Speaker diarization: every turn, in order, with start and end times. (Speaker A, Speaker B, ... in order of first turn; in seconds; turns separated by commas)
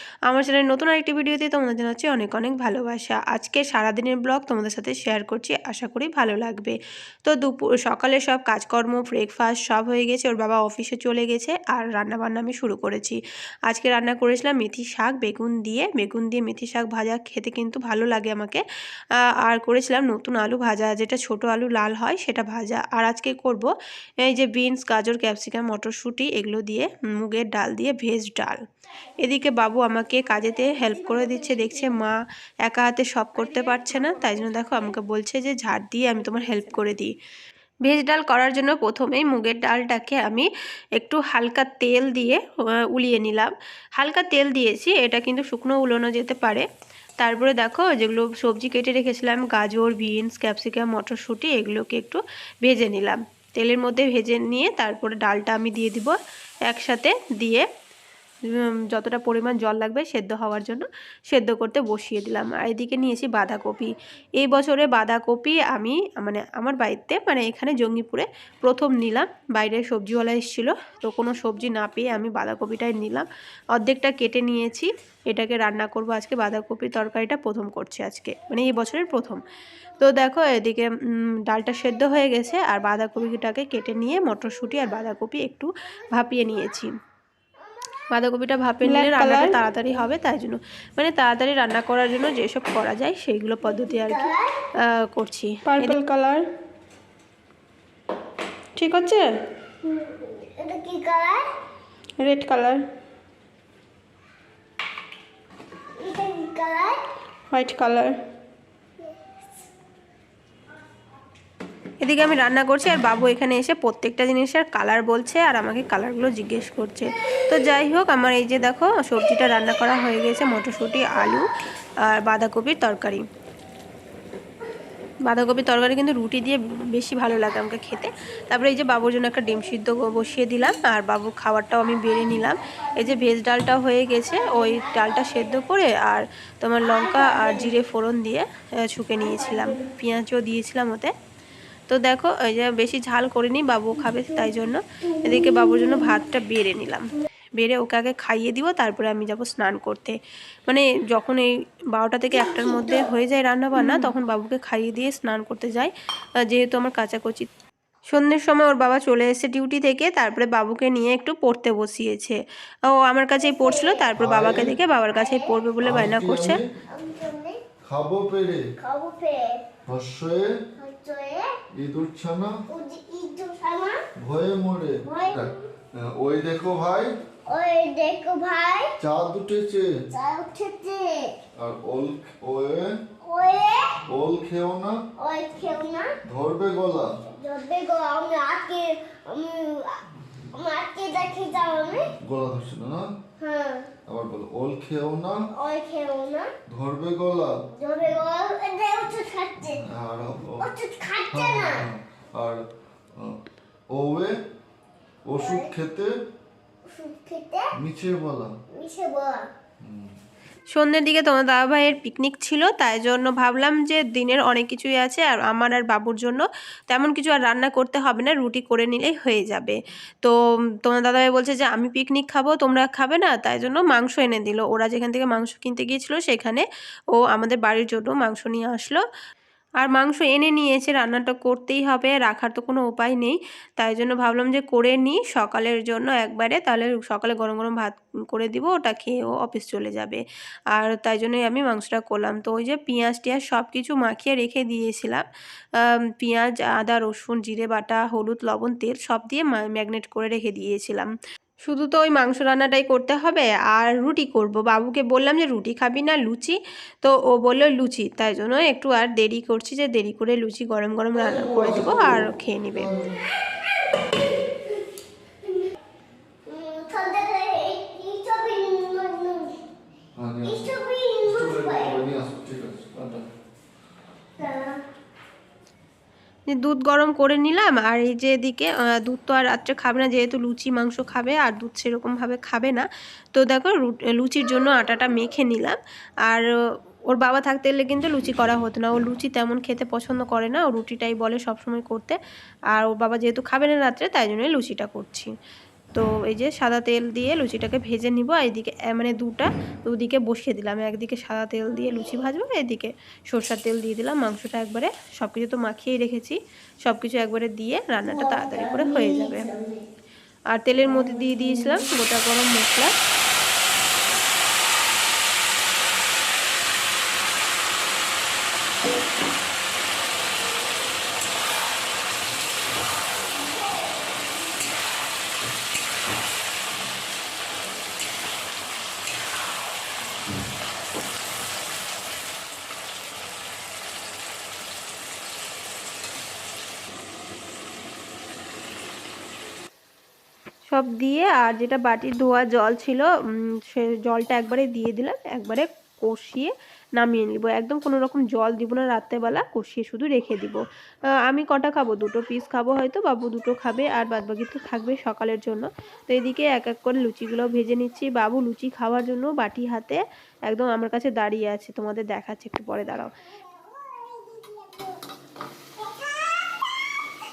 Speaker A: 0.3-18.6, Speaker A: 19.4-23.7, Speaker A: 24.2-28.6, Speaker A: 29.2-37.1, Speaker B: 30.6-31.8, Speaker A: 37.8-46.6, Speaker A: 47.2-56.1, Speaker A: 56.7-57.7, Speaker A: 58.5-79.4, Speaker A: 80.0-86.9, Speaker B: 86.0-86.7, Speaker B: 87.6-88.1, Speaker A: 88.1-94.3, Speaker C: 88.8-89.6, Speaker B: 93.6-94.5, Speaker A: 94.8-96.0, Speaker C: 95.7-96.4, Speaker C: 98.8-99.3, Speaker B: 99.8-101.5, Speaker C: 102.2-102.8, Speaker B: 106.0-107.0, Speaker C: 107.5-108.2, Speaker A: 112.0-121.5, Speaker A: 122.1-123.2, Speaker A: 125.2-141.1, Speaker B: 132.1-133.2, Speaker B: 134.2-135.7, Speaker B: 136.8-137.8, Speaker B: 139.2-139.9, Speaker A: 141.9-155.9, Speaker B: 144.1-146.2, Speaker B: 152.3-153.0, Speaker A: 156.5-157.5, Speaker A: 158.1-166.6, Speaker B: 163.4-164.1, Speaker D: 164.2-164.8, Speaker B: 165.1-165.5, Speaker D: 165.8-166.7, Speaker B: 166.9-167.6, Speaker D: 167.8-168.6, Speaker B: 168.8-169.6, Speaker D: 169.9-170.5, Speaker B: 170.8-171.5, Speaker D: 171.8-172.6, Speaker B: 172.7-174.0, Speaker D: 174.2-177.1, Speaker B: 175.0-175.7, Speaker B: 177.4-178.9, Speaker D: 179.0-180.0, Speaker B: 180.1-181.3, Speaker D: 181.6-183.0, Speaker B: 183.2-184.0, Speaker D: 184.1-185.0, Speaker B: 185.2-186.2, Speaker D: 186.2-187.1, Speaker B: 187.2-192.1, Speaker D: 192.2-193.1, Speaker B: 193.4-193.9, Speaker D: 194.1-195.4, Speaker B: 195.5-196.5, Speaker D: 196.7-197.6, Speaker B: 197.7-199.8, Speaker D: 199.7-200.7, Speaker B: 200.6-201.8, Speaker D: 201.3-202.6, Speaker D: 203.9-204.3, Speaker D: 205.3-206.1, Speaker B: 205.4-205.7, Speaker B: 206.8-207.7, Speaker D: 207.8-208.5, Speaker B: 208.7-209.5, Speaker D: 209.8-210.2, Speaker A: 210.7-229.0, Speaker A: 229.8-245.2, Speaker A: 245.8-251.1, Speaker A: 251.6-262.9, Speaker D: 261.2-263.1, Speaker B: 263.4-264.2, Speaker B: 266.4-269.6, Speaker D: 270.1-270.7, Speaker B: 270.4-272.0, Speaker D: 271.2-273.2, Speaker B: 274.4-274.8, Speaker A: 276.5-286.4, Speaker A: 287.1-292.2, Speaker A: 292.7-295.3, Speaker A: 295.9-309.5, Speaker B: 301.9-302.1, Speaker B: 308.0-309.9, Speaker A: 310.5-312.9, Speaker B: 310.8-311.9, Speaker A: 340.7-343.1, Speaker A: 343.7-350.6, Speaker A: 351.2-363.1, Speaker B: 363.5-364.9, Speaker B: 365.8-366.5